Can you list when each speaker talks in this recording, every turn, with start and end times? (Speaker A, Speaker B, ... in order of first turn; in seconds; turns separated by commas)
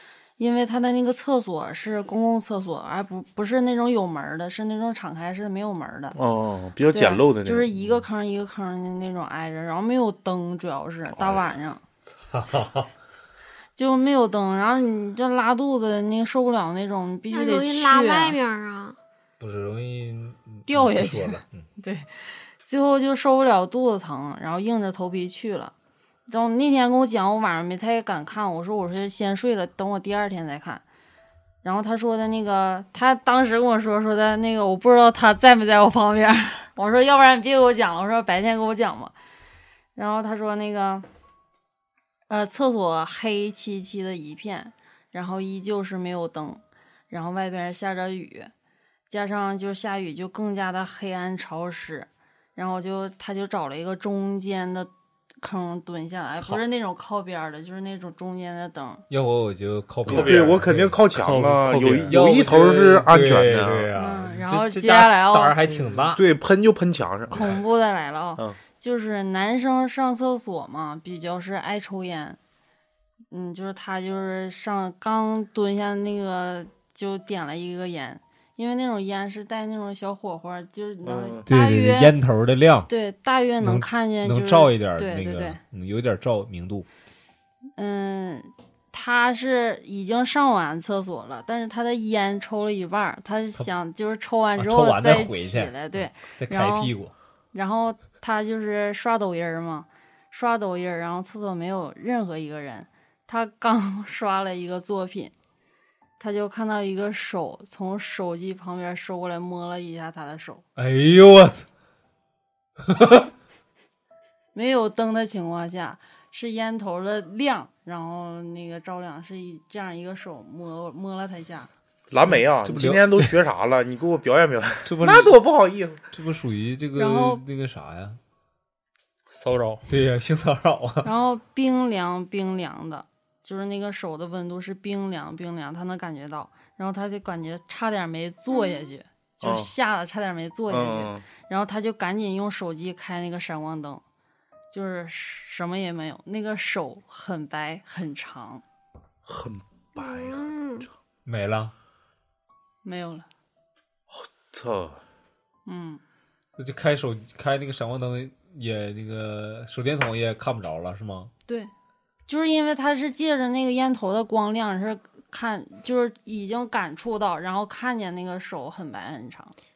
Speaker A: 0.4-6.2, Speaker B: 6.1-7.7, Speaker A: 6.9-11.8, Speaker C: 12.2-12.9, Speaker A: 13.8-18.4, Speaker D: 17.3-19.0, Speaker C: 19.4-21.6, Speaker A: 20.7-25.7, Speaker A: 26.3-30.8, Speaker A: 31.6-39.1, Speaker A: 39.9-41.0, Speaker A: 42.3-48.5, Speaker A: 49.1-59.0, Speaker C: 56.4-56.6, Speaker C: 59.1-61.0, Speaker B: 60.1-63.9, Speaker E: 60.1-60.6, Speaker E: 61.1-62.1, Speaker C: 62.0-66.2, Speaker A: 64.0-65.5, Speaker B: 66.0-67.5, Speaker A: 67.3-72.4, Speaker A: 73.3-82.2, Speaker B: 81.0-81.4, Speaker C: 81.5-82.9, Speaker A: 82.9-85.6, Speaker C: 83.6-86.9, Speaker A: 87.8-97.0, Speaker C: 94.5-97.1, Speaker A: 97.5-105.3, Speaker A: 106.2-110.6, Speaker C: 110.8-111.7, Speaker C: 112.8-113.3, Speaker A: 114.5-121.7, Speaker B: 122.1-126.0, Speaker C: 122.3-123.3, Speaker C: 124.8-125.4, Speaker C: 126.1-128.2, Speaker A: 127.0-127.4, Speaker E: 129.3-129.8, Speaker C: 129.9-131.1, Speaker A: 131.0-144.0, Speaker B: 139.4-139.7, Speaker B: 140.7-141.2, Speaker A: 144.7-148.6, Speaker B: 149.2-150.5, Speaker D: 149.9-150.9, Speaker C: 151.2-151.7, Speaker A: 152.8-153.2, Speaker B: 154.1-155.0, Speaker A: 155.7-156.0, Speaker C: 156.6-161.3, Speaker A: 162.3-169.5